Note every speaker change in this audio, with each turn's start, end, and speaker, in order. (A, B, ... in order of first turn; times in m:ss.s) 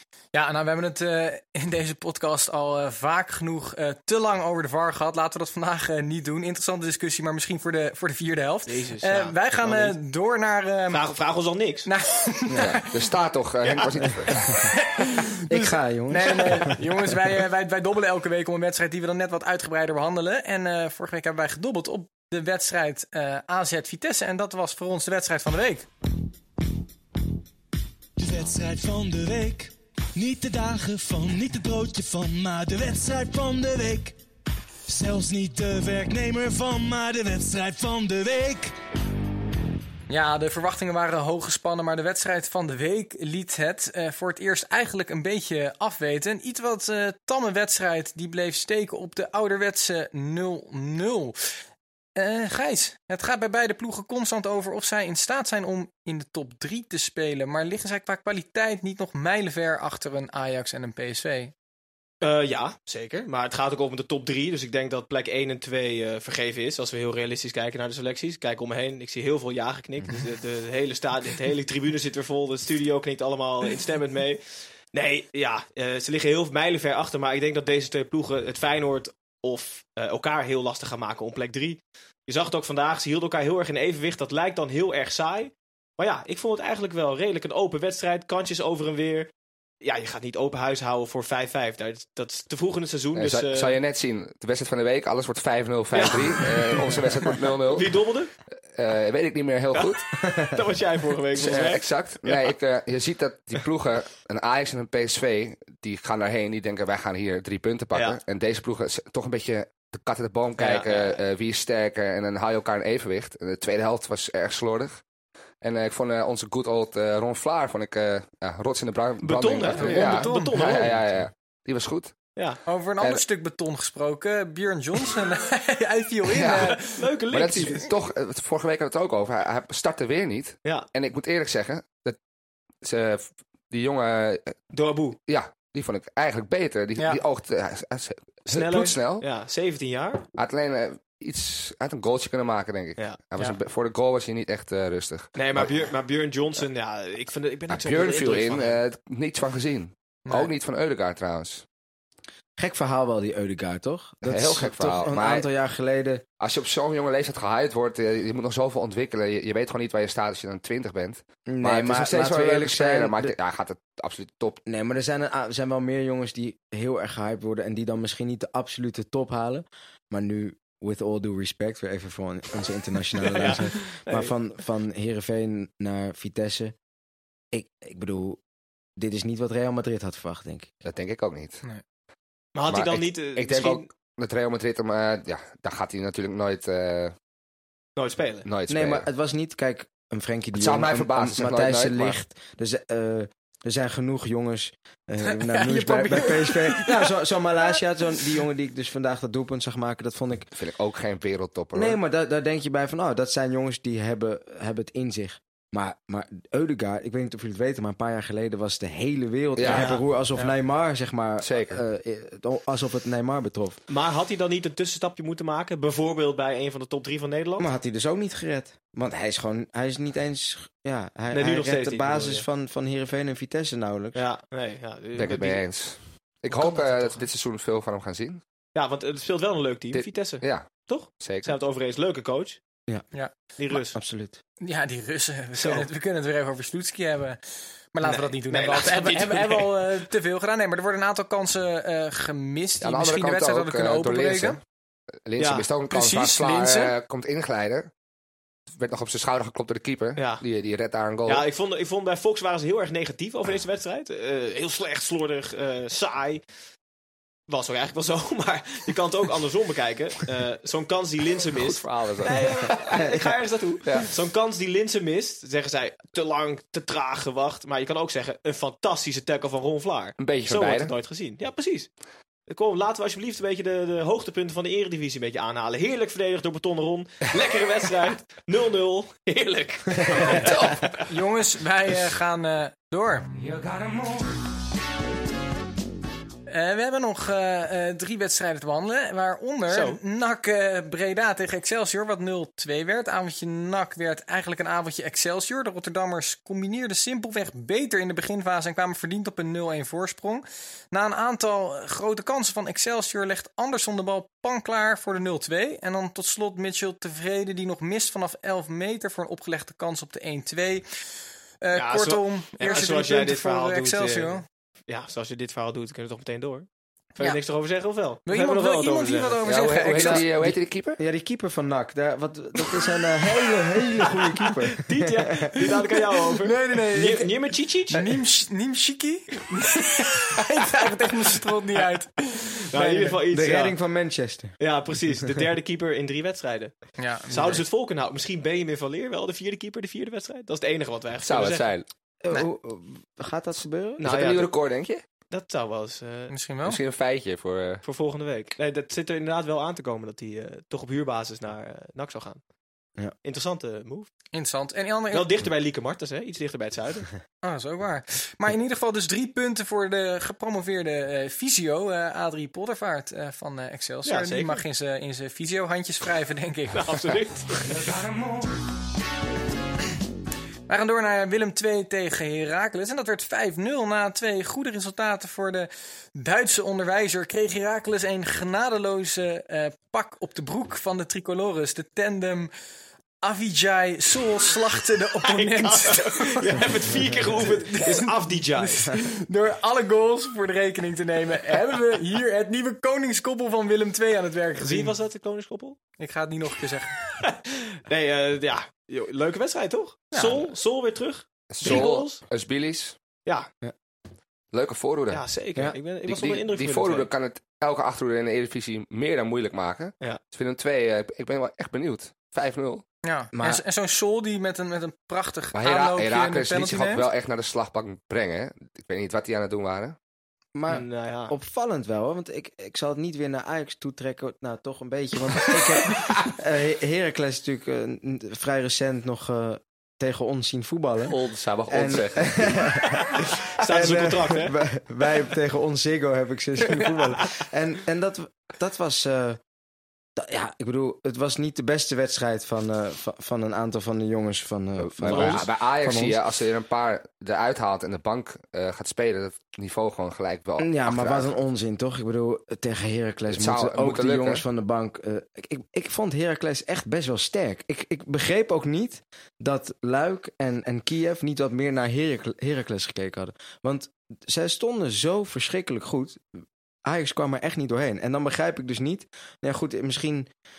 0:00.3-0:11.0 A
0:08.7-0:10.0 B
0:10.9-0:11.9 B
0:11.8-0:12.9 A
0:12.6-0:14.7 C
0:14.6-0:25.8 A
0:15.5-0:16.8 D
0:28.2-0:34.2 E
0:34.9-0:38.7 E
0:40.1-0:51.4 A
0:52.2-1:01.5 A
1:02.2-1:14.4 B
1:14.9-1:29.3 B
1:29.8-1:33.8 B
1:33.1-1:38.0 C
1:35.9-1:38.3 B
1:38.7-1:40.0 C
1:39.7-1:42.5 B
1:41.3-1:55.0 C
1:47.9-1:48.2 B
1:50.6-1:51.2 B
1:55.6-2:02.2 C
1:59.2-2:01.1 B
1:59.7-2:00.8 A
2:02.6-2:07.0 A
2:06.3-2:12.2 C
2:06.9-2:07.9 B
2:12.8-2:14.6 C
2:14.7-2:15.2 B
2:15.3-2:19.2 C
2:18.5-2:20.3 B
2:20.3-2:25.8 C
2:23.0-2:23.6 B
2:25.3-2:28.8 B
2:27.7-2:31.6 C
2:32.6-2:36.2 D
2:34.2-2:35.5 C
2:36.4-2:44.6 C
2:41.4-2:43.3 D
2:44.6-2:56.7 D
2:53.3-2:54.3 B
2:57.5-2:58.4 D
2:59.0-3:00.7 D
3:00.8-3:01.6 C
3:02.5-3:03.9 B
3:02.7-3:07.1 C
3:08.0-3:08.5 B
3:08.4-3:09.0 C
3:08.7-3:20.5 D
3:10.6-3:12.2 C
3:15.2-3:17.1 A
3:20.5-3:22.0 C
3:21.7-3:33.8 D
3:29.6-3:29.9 C
3:29.6-3:30.0 B
3:31.4-3:31.8 C
3:33.9-3:37.7 B
3:37.6-3:44.2 D
3:41.3-3:42.4 B
3:44.1-3:45.6 B
3:45.2-3:48.4 C
3:48.7-3:52.6 B
3:49.9-3:51.5 C
3:53.1-3:53.9 A
3:53.6-3:53.9 B
3:53.7-3:54.4 D
3:54.6-3:57.4 A
3:55.6-3:55.8 B
3:57.9-4:04.6 A
3:58.0-3:59.8 B
4:02.8-4:04.6 C
4:05.2-4:07.9 C
4:05.4-4:05.7 B
4:05.9-4:06.9 A
4:08.7-4:11.4 C
4:10.2-4:10.4 B
4:11.2-4:16.4 B
4:17.5-4:31.9 B
4:21.5-4:23.0 C
4:30.2-4:30.9 C
4:32.5-4:40.5 B
4:40.4-4:43.3 A
4:46.5-5:10.8 A
4:49.7-4:50.0 B
5:11.6-5:14.4 A
5:11.7-5:19.4 B
5:18.2-5:20.3 A
5:19.4-5:21.0 C
5:19.9-5:25.6 D
5:24.8-5:28.0 B
5:26.4-5:27.4 A
5:27.9-5:33.2 A
5:32.7-5:33.8 B
5:33.3-5:34.6 D
5:34.6-5:41.7 B
5:37.0-5:37.6 A
5:41.2-5:41.9 C
5:42.2-5:44.0 D
5:44.0-5:44.5 B
5:44.0-5:45.0 C
5:45.3-5:46.3 B
5:46.3-5:46.8 A
5:46.6-5:47.8 C
5:47.8-5:52.4 B
5:53.2-5:54.1 B
5:54.3-5:55.3 A
5:55.1-5:57.1 B
5:57.4-6:07.0 A
6:04.0-6:04.6 B
6:06.7-6:07.8 B
6:10.7-6:22.5 A
6:23.2-6:34.9 A
6:25.2-6:28.9 B
6:34.6-6:35.8 B
6:36.0-6:37.0 A
6:37.9-6:42.2 B
6:40.1-6:40.5 A
6:41.5-6:43.0 C
6:44.5-6:45.2 C
6:45.1-6:47.1 B
6:46.0-6:52.8 C
6:53.0-6:57.1 A
6:53.3-6:53.6 D
6:55.5-7:00.0 C
7:00.5-7:19.4 D
7:00.7-7:01.3 B
7:11.0-7:12.7 C
7:13.6-7:14.6 B
7:20.2-7:26.2 D
7:24.8-7:31.3 C
7:25.1-7:25.4 B
7:30.6-7:46.2 D
7:33.3-7:34.4 C
7:46.8-7:50.3 D